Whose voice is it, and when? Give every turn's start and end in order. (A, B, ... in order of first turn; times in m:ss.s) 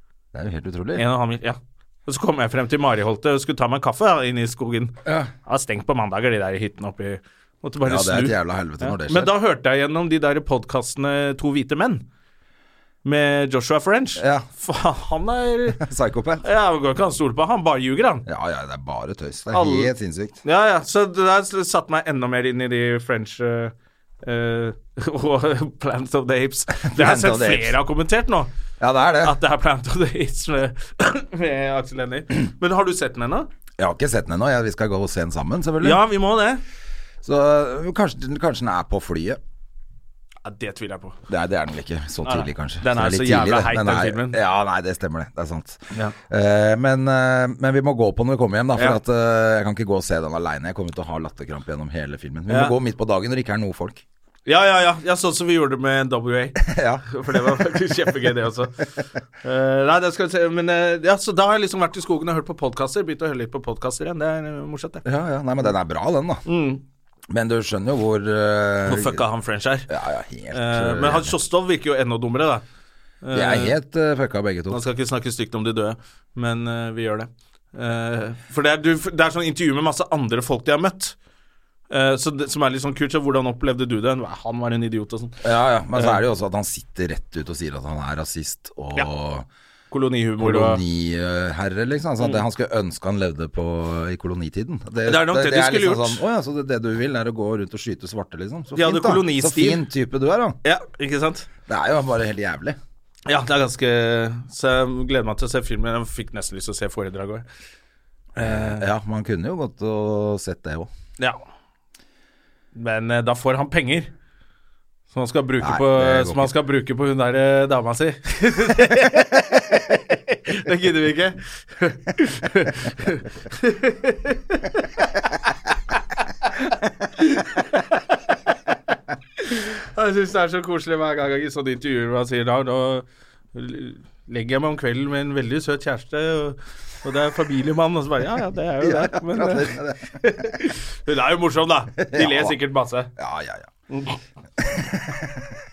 0:00.3-0:01.1 A
0:01.0-0:05.0 B
0:05.1-0:05.3 A
0:05.5-0:12.0 B
0:07.8-0:09.3 A
0:13.0-0:15.8 B
0:14.2-0:14.5 A
0:15.8-0:16.4 A
0:16.4-0:18.3 B
0:18.3-0:20.4 A
0:19.5-0:19.9 B
0:20.4-0:28.5 B
0:26.9-0:27.8 A
0:28.8-0:29.4 A
0:29.2-0:33.5 B
0:33.8-0:36.0 A
0:35.8-0:36.6 B
0:37.2-0:39.4 A
0:40.4-0:41.2 B
0:41.3-0:54.0 A
0:42.2-0:44.4 B
0:52.5-0:52.8 B
0:54.5-0:58.9 B
0:56.6-0:57.7 A
0:59.4-1:05.0 B
1:05.0-1:06.4 A
1:06.5-1:06.8 B
1:07.3-1:09.2 A
1:08.9-1:09.9 B
1:09.9-1:11.4 A
1:10.5-1:12.6 B
1:13.2-1:13.7 B
1:13.3-1:14.8 A
1:14.7-1:21.2 B
1:21.9-1:26.2 B
1:25.4-1:29.5 A
1:29.9-1:30.8 B
1:30.4-1:40.6 A
1:35.1-1:36.2 B
1:38.8-1:39.8 B
1:40.6-1:41.5 B
1:41.7-1:42.8 A
1:43.3-1:47.5 B
1:48.4-1:50.9 A
1:48.4-1:48.8 B
1:52.8-1:54.1 B
1:55.1-2:04.9 B
1:55.6-1:56.5 A
2:07.2-2:08.2 B
2:09.4-2:23.1 B
2:18.8-2:20.3 A
2:22.0-2:22.6 A
2:23.2-2:23.7 A
2:23.9-2:24.2 B
2:24.6-2:25.5 A